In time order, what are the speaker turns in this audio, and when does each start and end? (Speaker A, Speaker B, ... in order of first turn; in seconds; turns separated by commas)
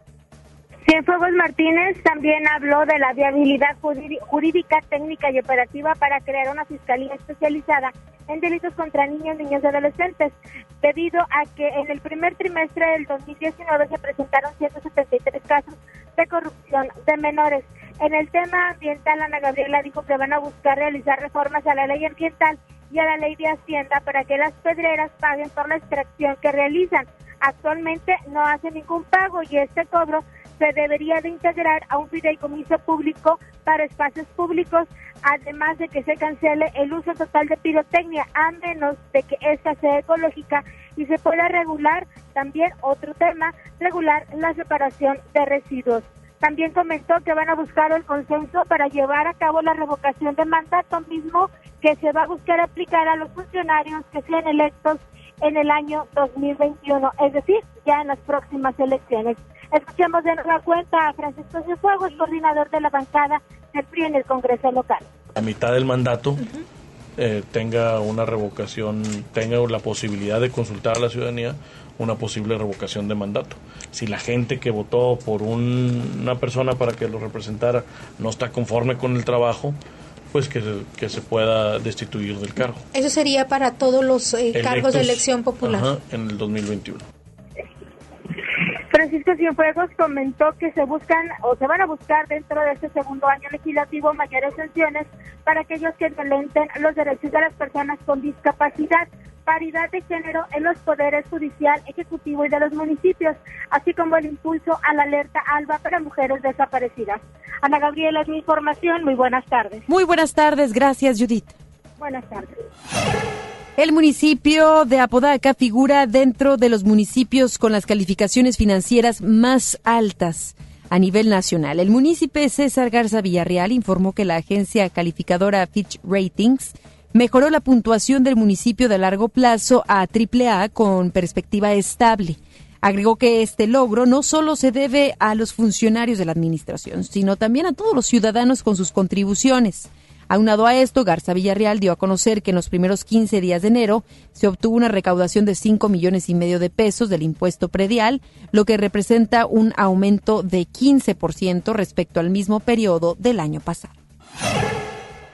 Speaker A: 0.8-65.1, Speaker B: 65.3-66.4, Speaker B: 67.2-79.8, Speaker B: 80.3-82.8, Speaker C: 82.9-85.8, Speaker B: 84.5-87.0, Speaker A: 88.9-109.8, Speaker D: 109.9-111.5, Speaker A: 112.0-112.5, Speaker D: 113.8-153.9